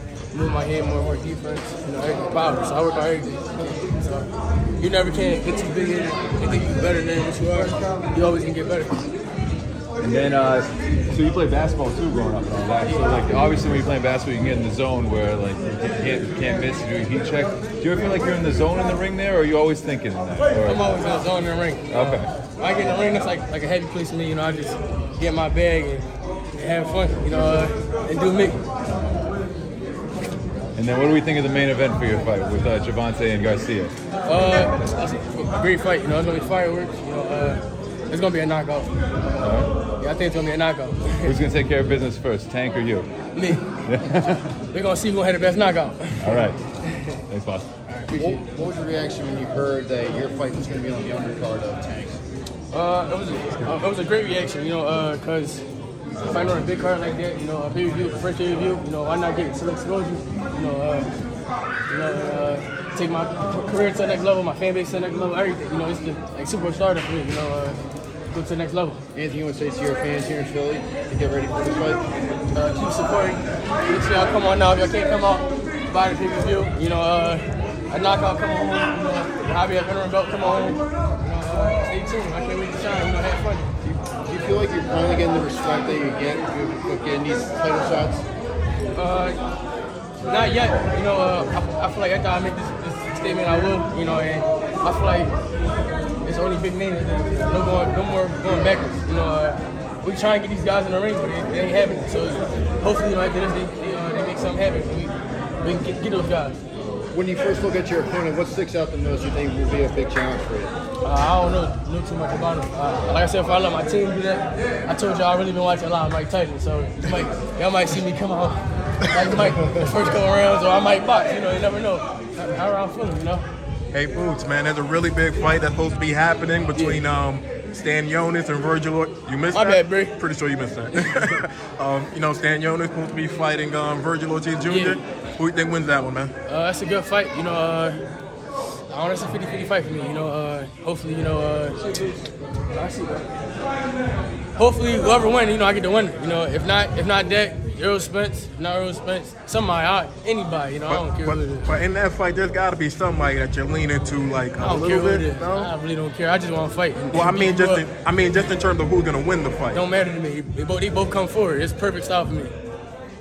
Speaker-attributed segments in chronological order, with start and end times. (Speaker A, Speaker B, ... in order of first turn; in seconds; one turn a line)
Speaker A: 0.3-9.1
Speaker B: 10.0-20.9
Speaker A: 20.6-28.6
Speaker B: 21.9-22.3
Speaker B: 30.8-33.9
Speaker A: 34.2-41.4
Speaker B: 39.4-39.7
Speaker B: 41.2-43.1
Speaker A: 43.3-43.7
Speaker B: 43.9-44.5
Speaker A: 44.7-47.2
Speaker B: 46.2-46.6
Speaker B: 47.3-47.7
Speaker A: 47.9-48.4
Speaker C: 48.1-52.2
Speaker A: 52.7-55.6
Speaker A: 56.2-61.1
Speaker A: 61.9-67.8
Speaker A: 68.3-69.0
Speaker C: 69.1-72.0
Speaker A: 72.5-83.7
Speaker C: 83.8-88.2
Speaker A: 88.9-89.4
Speaker A: 90.2-95.3
Speaker A: 96.2-106.6
Speaker C: 107.1-110.7
Speaker A: 111.0-123.5
Speaker D: 123.9-136.3
Speaker A: 126.7-127.0
Speaker A: 129.5-130.2
Speaker A: 131.0-131.3
Speaker A: 134.7-135.0
Speaker A: 136.5-138.0
Speaker A: 138.9-143.3
Speaker A: 144.6-151.7
Speaker D: 150.9-155.7
Speaker A: 154.6-157.9
Speaker D: 157.1-159.8
Speaker A: 159.7-162.6